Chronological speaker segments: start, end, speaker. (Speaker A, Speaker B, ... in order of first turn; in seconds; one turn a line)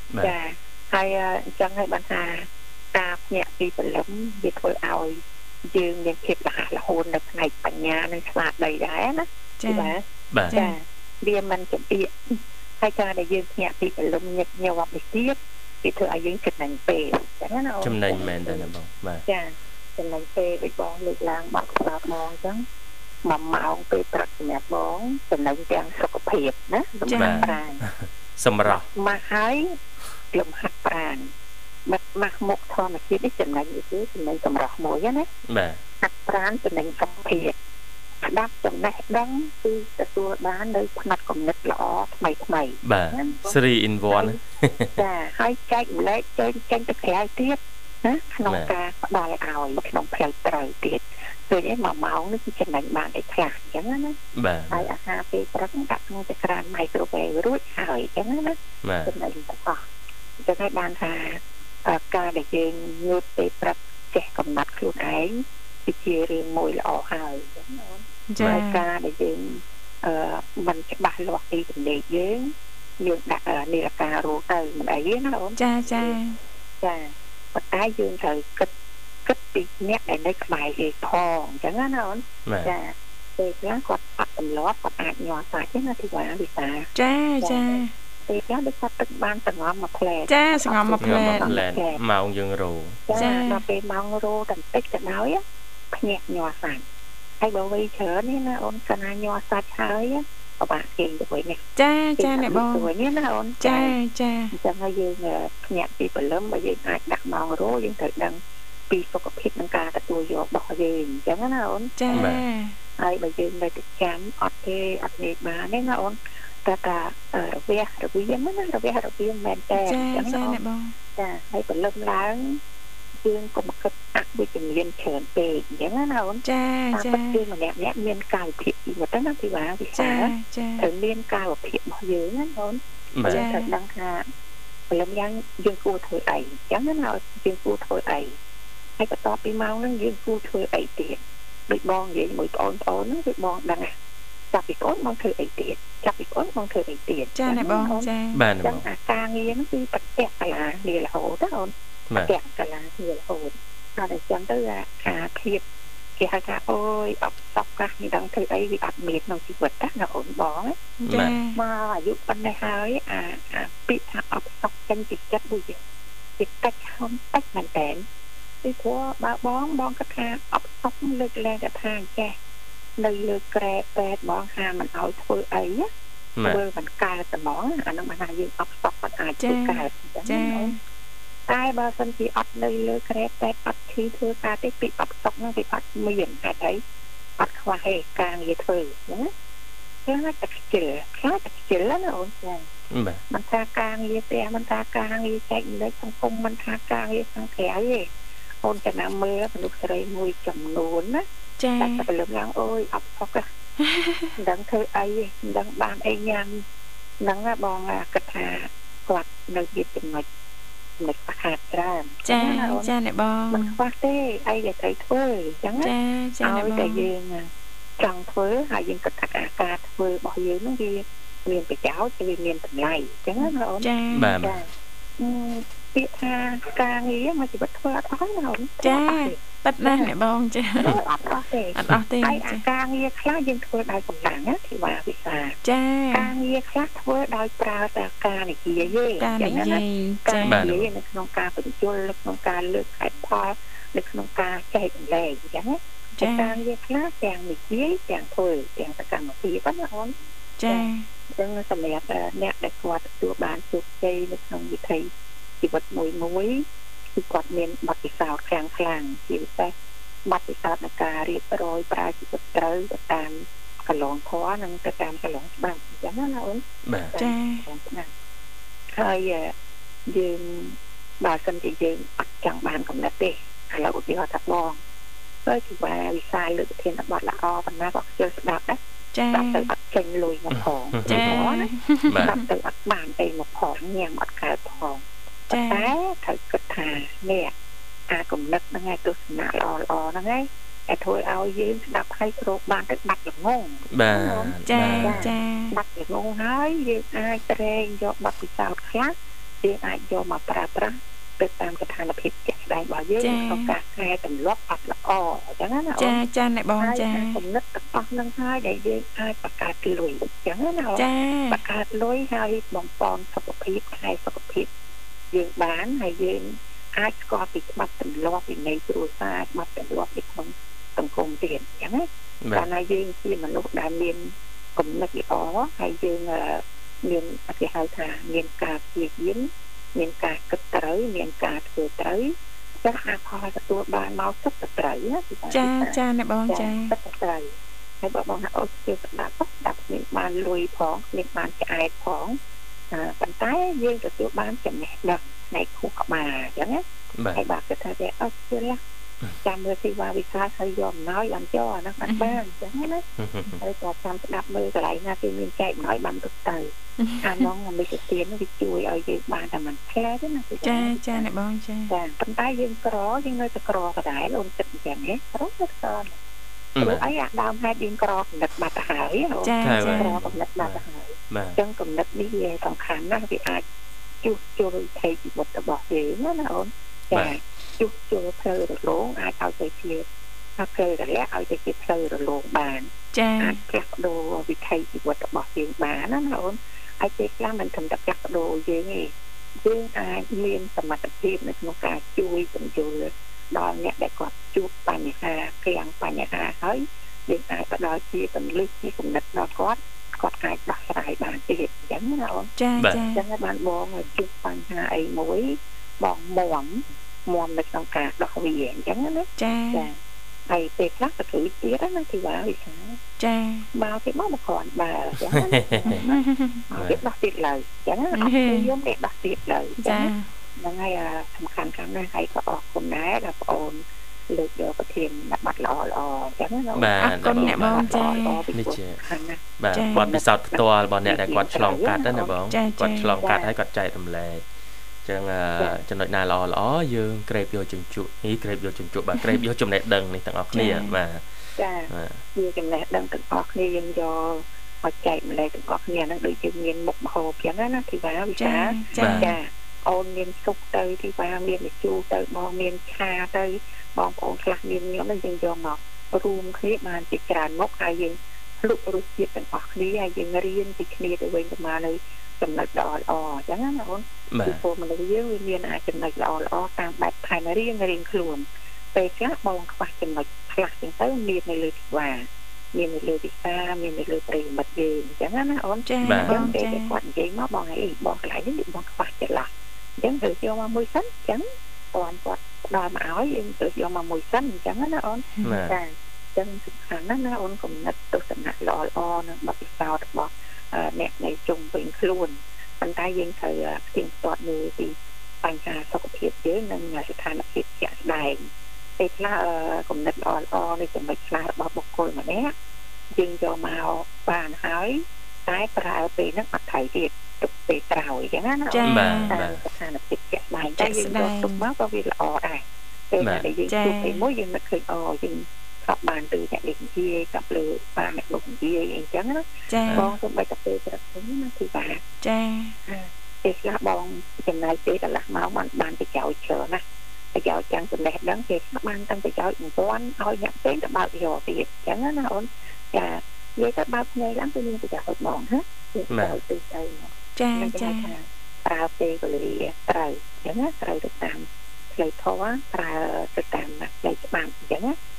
Speaker A: 0.2-18.7
Speaker B: 9.6-9.9
Speaker C: 10.3-10.6
Speaker B: 10.5-10.7
Speaker C: 17.8-19.2
Speaker A: 19.3-22.6
Speaker A: 23.2-27.8
Speaker B: 27.1-27.6
Speaker C: 27.1-28.9
Speaker A: 28.6-29.8
Speaker A: 30.3-31.3
Speaker A: 31.9-35.3
Speaker C: 35.5-35.8
Speaker A: 36.0-37.5
Speaker A: 38.2-43.5
Speaker C: 42.8-45.0
Speaker A: 44.1-44.4
Speaker A: 45.0-54.2
Speaker C: 48.5-48.7
Speaker C: 54.3-54.9
Speaker A: 54.7-59.8
Speaker C: 58.8-59.1
Speaker A: 60.4-76.2
Speaker B: 68.3-68.8
Speaker C: 68.4-68.6
Speaker B: 75.6-76.4
Speaker A: 76.8-78.7
Speaker A: 79.2-92.0
Speaker C: 82.5-82.7
Speaker B: 86.9-87.9
Speaker B: 90.3-91.5
Speaker C: 91.0-93.3
Speaker A: 93.1-96.8
Speaker B: 93.1-93.6
Speaker A: 97.4-101.6
Speaker B: 101.8-102.9
Speaker A: 102.2-104.0
Speaker B: 103.6-104.5
Speaker A: 104.5-112.3
Speaker B: 112.0-112.8
Speaker C: 112.1-112.4
Speaker A: 113.0-120.6
Speaker B: 119.8-120.9
Speaker A: 121.2-122.6
Speaker A: 123.2-134.3
Speaker B: 126.4-127.4
Speaker B: 129.9-130.9
Speaker C: 133.1-133.4
Speaker B: 133.2-133.7
Speaker A: 134.9-138.4
Speaker A: 139.0-143.9
Speaker A: 144.5-148.1
Speaker B: 147.3-148.4
Speaker C: 148.3-148.8
Speaker A: 148.6-155.6
Speaker A: 156.2-160.8
Speaker B: 161.0-161.6
Speaker C: 161.1-161.4
Speaker A: 161.5-165.8
Speaker A: 166.4-168.1
Speaker A: 168.6-172.3
Speaker A: 173.0-175.9
Speaker C: 176.4-176.6
Speaker A: 176.4-180.7
Speaker B: 179.4-180.8
Speaker A: 181.5-186.8
Speaker A: 187.4-189.3
Speaker A: 190.1-192.7
Speaker C: 192.9-193.2
Speaker A: 193.3-198.1
Speaker A: 198.6-201.2
Speaker B: 201.6-202.0
Speaker A: 201.8-203.5
Speaker B: 203.8-204.3
Speaker A: 204.4-206.6
Speaker A: 207.2-210.2
Speaker A: 211.0-212.9
Speaker B: 212.2-213.8
Speaker A: 213.5-230.1
Speaker B: 215.8-217.1
Speaker B: 223.4-224.3
Speaker C: 224.1-224.6
Speaker B: 228.8-231.0
Speaker A: 230.8-235.6
Speaker B: 231.7-232.6
Speaker B: 235.6-236.3
Speaker A: 236.1-250.1
Speaker B: 239.2-240.6
Speaker C: 240.4-240.9
Speaker B: 246.2-246.6
Speaker B: 250.6-251.1
Speaker A: 250.7-255.1
Speaker A: 255.6-259.7
Speaker A: 260.2-268.1
Speaker C: 266.9-267.1
Speaker B: 267.2-267.6
Speaker A: 268.9-269.5
Speaker A: 270.1-274.8
Speaker A: 275.4-278.8
Speaker B: 279.1-279.7
Speaker A: 279.3-287.5
Speaker C: 280.5-281.5
Speaker B: 281.0-282.4
Speaker C: 282.1-282.4
Speaker B: 285.5-285.9
Speaker A: 288.1-306.2
Speaker C: 293.9-295.3
Speaker B: 294.6-295.7
Speaker B: 303.2-303.7
Speaker B: 306.0-307.4
Speaker A: 306.8-314.7
Speaker B: 310.9-311.6
Speaker A: 315.3-342.4
Speaker C: 322.4-322.7
Speaker B: 335.5-336.9
Speaker A: 342.9-346.8
Speaker C: 347.1-347.4
Speaker A: 347.3-348.8
Speaker A: 349.4-353.0
Speaker B: 352.1-352.4
Speaker C: 353.2-353.6
Speaker A: 353.6-356.7
Speaker B: 357.0-357.5
Speaker A: 357.2-361.3
Speaker B: 360.6-361.9
Speaker A: 361.9-366.1
Speaker C: 366.8-367.1
Speaker A: 366.8-373.6
Speaker B: 369.4-370.2
Speaker C: 369.6-371.6
Speaker A: 374.2-380.0
Speaker A: 380.6-389.1
Speaker B: 383.1-383.6
Speaker A: 389.6-402.5
Speaker B: 402.6-403.2
Speaker C: 402.8-403.1
Speaker A: 403.1-410.0
Speaker B: 409.4-409.9
Speaker A: 410.5-413.0
Speaker B: 413.2-413.7
Speaker A: 413.7-432.3
Speaker C: 415.3-416.0
Speaker B: 415.9-416.6
Speaker C: 416.8-417.0
Speaker B: 418.1-418.7
Speaker B: 419.8-420.3
Speaker C: 426.7-429.0
Speaker B: 427.0-428.4
Speaker C: 429.6-434.5
Speaker B: 429.7-430.0
Speaker B: 432.5-433.2
Speaker A: 433.2-433.5
Speaker C: 435.0-441.2
Speaker B: 439.1-439.4
Speaker B: 440.5-440.9
Speaker A: 441.6-498.5
Speaker C: 441.9-442.2
Speaker B: 448.4-449.3
Speaker C: 449.0-449.4
Speaker C: 464.3-464.6
Speaker B: 475.9-476.9
Speaker C: 476.0-476.5
Speaker C: 485.4-485.8
Speaker A: 499.0-502.5
Speaker A: 503.1-522.0
Speaker B: 508.7-509.4
Speaker C: 508.9-509.6
Speaker B: 510.8-511.6
Speaker C: 513.2-513.5
Speaker B: 513.7-514.2
Speaker B: 519.7-520.1
Speaker C: 519.8-520.1
Speaker B: 522.2-522.8
Speaker A: 522.9-526.8
Speaker A: 527.3-545.0
Speaker C: 536.1-536.4
Speaker B: 537.4-538.1